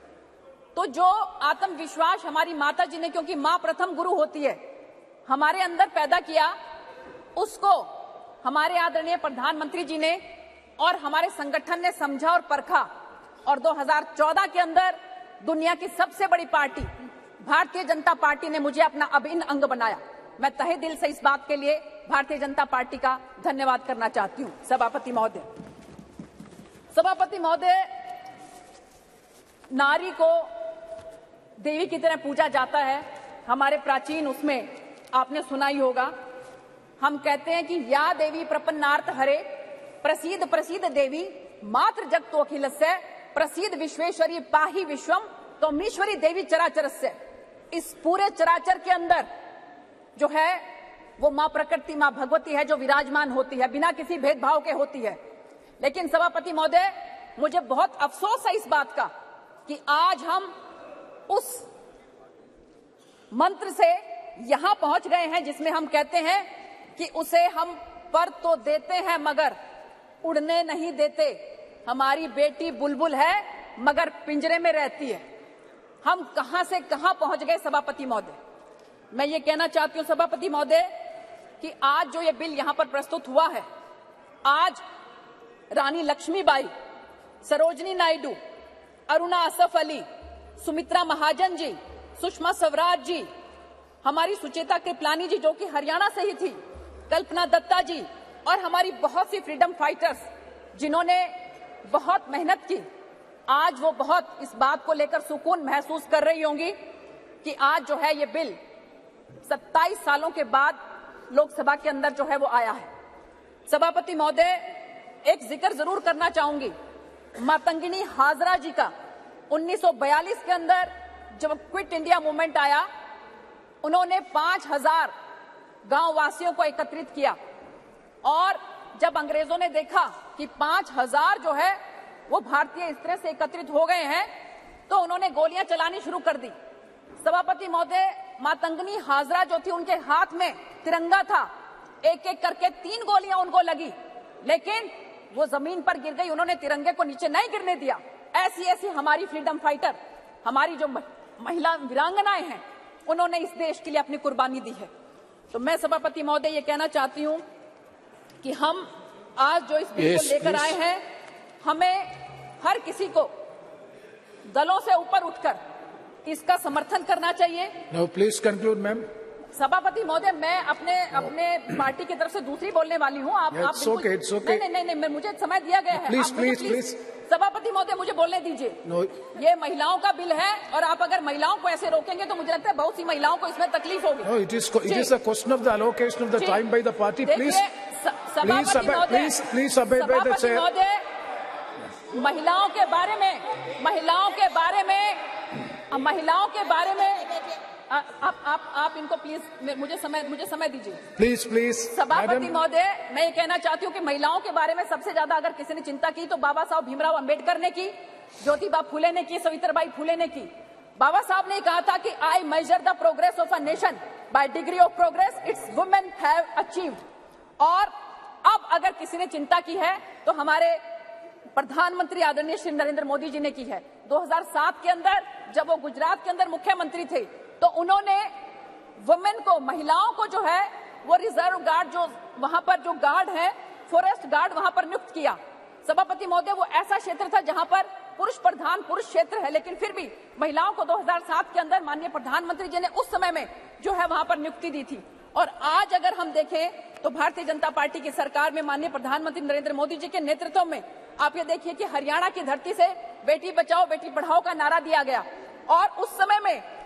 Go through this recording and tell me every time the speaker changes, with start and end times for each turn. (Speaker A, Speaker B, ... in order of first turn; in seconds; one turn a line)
Speaker A: 0.7-4.6
Speaker A: 5.2-6.5
Speaker A: 7.3-10.2
Speaker A: 10.8-12.9
Speaker A: 13.4-16.9
Speaker A: 17.4-25.5
Speaker A: 26.9-27.9
Speaker A: 29.7-30.5
Speaker A: 31.6-36.1
Speaker A: 37.0-47.1
Speaker A: 47.7-49.3
Speaker A: 50.1-55.2
Speaker A: 55.8-59.1
Speaker A: 59.6-60.5
Speaker A: 61.3-61.6
Speaker A: 63.3-69.5
Speaker A: 70.2-75.2
Speaker A: 76.0-78.4
Speaker A: 79.1-80.9
Speaker A: 81.6-83.6
Speaker A: 84.4-84.8
Speaker A: 85.7-86.7
Speaker A: 87.4-88.4
Speaker A: 89.1-90.0
Speaker A: 90.6-93.3
Speaker A: 94.0-100.2
Speaker A: 100.7-101.3
Speaker A: 101.8-102.8
Speaker A: 103.5-106.7
Speaker A: 107.4-108.6
Speaker A: 109.5-110.8
Speaker A: 111.3-112.9
Speaker A: 113.7-114.7
Speaker A: 115.2-116.7
Speaker A: 117.4-118.9
Speaker A: 119.5-122.8
Speaker A: 123.8-125.1
Speaker A: 125.8-127.4
Speaker A: 128.2-134.3
Speaker A: 134.9-136.5
Speaker A: 137.2-141.5
Speaker A: 142.0-154.9
Speaker A: 155.5-157.4
Speaker A: 158.4-161.0
Speaker B: 160.0-160.8
Speaker A: 161.6-163.3
Speaker A: 164.5-165.6
Speaker A: 166.2-167.8
Speaker B: 167.9-169.1
Speaker A: 169.5-184.3
Speaker B: 173.5-174.6
Speaker B: 175.9-177.0
Speaker B: 178.8-179.1
Speaker B: 184.2-187.6
Speaker A: 184.8-185.1
Speaker A: 186.4-186.6
Speaker A: 187.2-189.4
Speaker B: 188.4-190.7
Speaker A: 189.9-191.0
Speaker A: 192.1-195.2
Speaker A: 195.9-201.0
Speaker B: 201.2-202.5
Speaker A: 201.9-217.0
Speaker A: 217.6-217.9
Speaker A: 218.4-220.8
Speaker A: 221.5-228.3
Speaker A: 229.0-256.6